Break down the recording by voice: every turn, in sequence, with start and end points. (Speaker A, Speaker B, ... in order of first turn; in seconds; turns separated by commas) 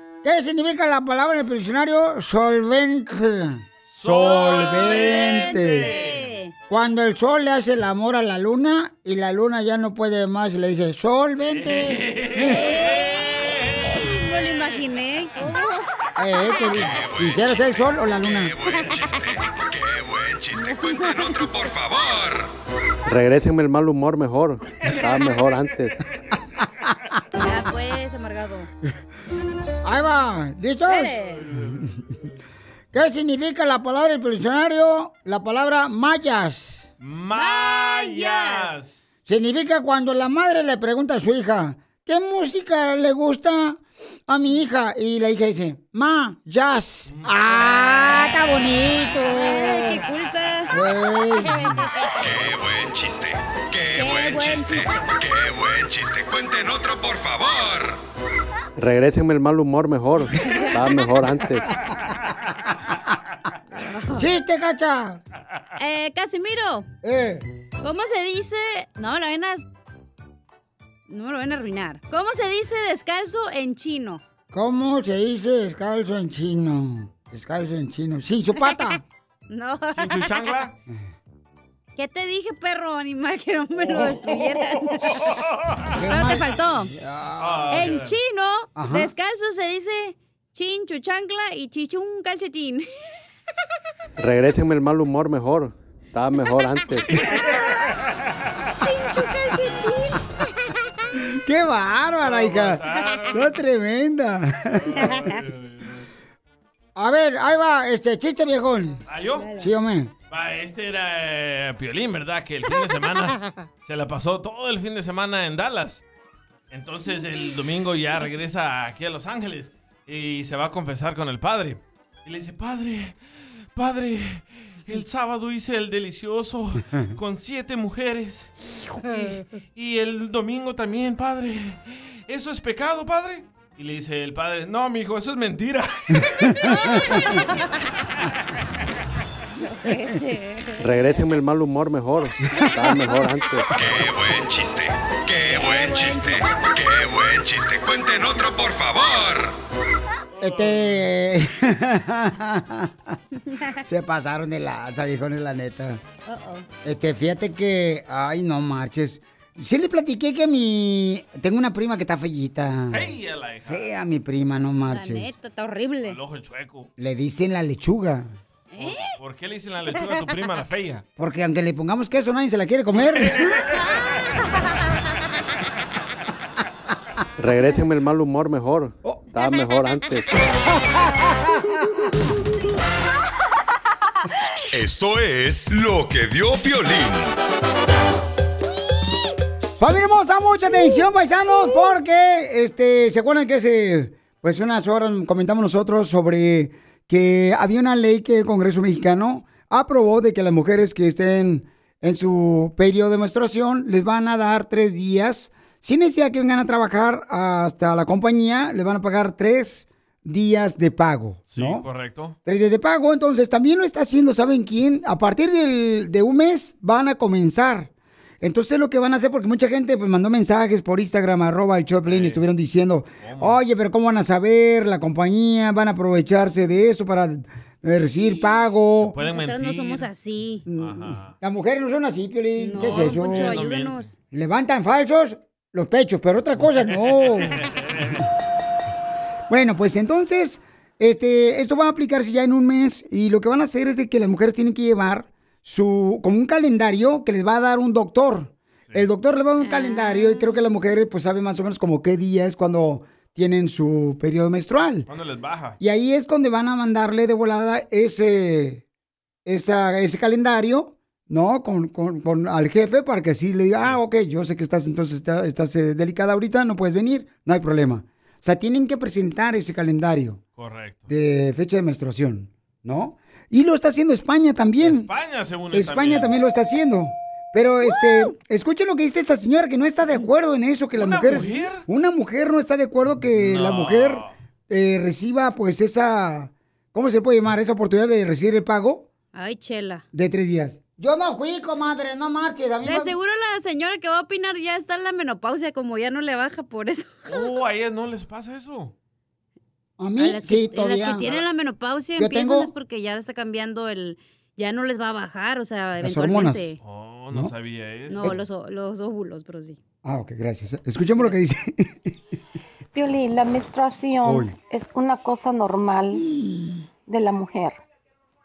Speaker A: 0.2-5.9, Speaker B: 4.0-6.2, Speaker C: 4.7-6.5, Speaker A: 6.7-12.7, Speaker B: 11.5-14.0, Speaker C: 12.4-15.8, Speaker A: 16.2-18.6, Speaker D: 16.9-22.5, Speaker C: 18.6-19.2, Speaker C: 20.5-21.8, Speaker E: 23.1-25.9, Speaker B: 24.9-26.4, Speaker C: 27.4-28.7, Speaker A: 29.8-31.2, Speaker C: 30.9-31.4, Speaker B: 31.2-32.3, Speaker A: 32.9-36.9, Speaker B: 37.0-39.0, Speaker C: 37.4-38.7, Speaker A: 39.2-50.0, Speaker B: 47.1-47.9, Speaker C: 49.2-50.7, Speaker A: 50.7-51.7, Speaker D: 52.2-58.0, Speaker C: 53.9-55.1, Speaker E: 58.8-61.7, Speaker C: 60.4-61.1, Speaker C: 63.8-64.3, Speaker A: 64.2-65.2, Speaker C: 65.8-66.9, Speaker A: 67.0-67.4, Speaker C: 67.8-69.7, Speaker C: 71.1-74.2, Speaker A: 74.5-79.0, Speaker C: 79.5-80.3, Speaker B: 80.0-80.7, Speaker C: 82.0-85.2, Speaker A: 84.0-84.3, Speaker B: 85.0-86.0, Speaker A: 86.0-87.7, Speaker C: 86.0-86.9, Speaker B: 87.4-88.1, Speaker C: 87.7-92.8, Speaker A: 88.8-89.1, Speaker E: 94.2-97.1, Speaker B: 97.1-97.6, Speaker C: 98.8-100.3, Speaker A: 101.4-105.1, Speaker B: 102.2-103.6, Speaker B: 104.8-106.1, Speaker A: 107.0-109.0, Speaker B: 109.1-109.5, Speaker C: 109.4-109.7, Speaker A: 109.6-110.1, Speaker B: 110.3-116.0, Speaker B: 116.7-123.2, Speaker B: 123.8-128.5, Speaker B: 129.0-136.5, Speaker C: 136.6-137.5, Speaker C: 139.6-141.2, Speaker E: 140.8-143.8, Speaker C: 142.6-143.2, Speaker D: 143.8-149.5, Speaker C: 145.4-146.8, Speaker B: 150.4-151.0, Speaker A: 150.4-152.9, Speaker A: 153.8-156.0, Speaker C: 156.2-156.7, Speaker A: 156.8-163.1, Speaker B: 162.9-163.9, Speaker A: 163.7-165.3, Speaker C: 164.9-166.2, Speaker B: 166.0-166.9, Speaker A: 167.0-168.3, Speaker C: 168.7-169.1, Speaker B: 168.8-171.0, Speaker A: 171.2-173.5, Speaker B: 172.9-173.9, Speaker E: 177.4-180.4, Speaker A: 180.6-182.0, Speaker D: 184.7-187.3, Speaker A: 189.8-211.8, Speaker B: 211.5-212.3, Speaker A: 212.4-217.9, Speaker A: 218.4-229.1, Speaker B: 222.1-222.4, Speaker B: 223.2-223.6, Speaker C: 228.2-228.5, Speaker B: 229.1-230.1, Speaker C: 229.2-230.7, Speaker A: 230.7-233.6, Speaker B: 230.8-231.3, Speaker C: 232.6-234.2, Speaker B: 232.7-234.1, Speaker A: 234.3-237.6, Speaker B: 236.9-238.2, Speaker A: 239.5-255.1, Speaker C: 249.6-250.6, Speaker B: 255.1-255.8, Speaker A: 255.8-258.8, Speaker A: 259.4-270.4, Speaker B: 270.6-271.1, Speaker A: 271.1-275.1, Speaker B: 274.8-276.3, Speaker A: 275.7-289.1, Speaker B: 280.9-281.8, Speaker B: 283.4-284.3, Speaker C: 289.3-290.0, Speaker A: 290.1-293.1, Speaker C: 292.8-297.5, Speaker B: 297.3-298.9, Speaker A: 300.0-301.2, Speaker C: 300.2-306.8, Speaker B: 301.0-301.4, Speaker A: 302.2-302.7, Speaker A: 306.0-306.7, Speaker B: 306.8-308.3, Speaker C: 308.1-309.8, Speaker A: 310.0-311.9, Speaker F: 312.9-316.2, Speaker A: 314.2-314.5, Speaker A: 316.1-316.8, Speaker F: 317.1-317.8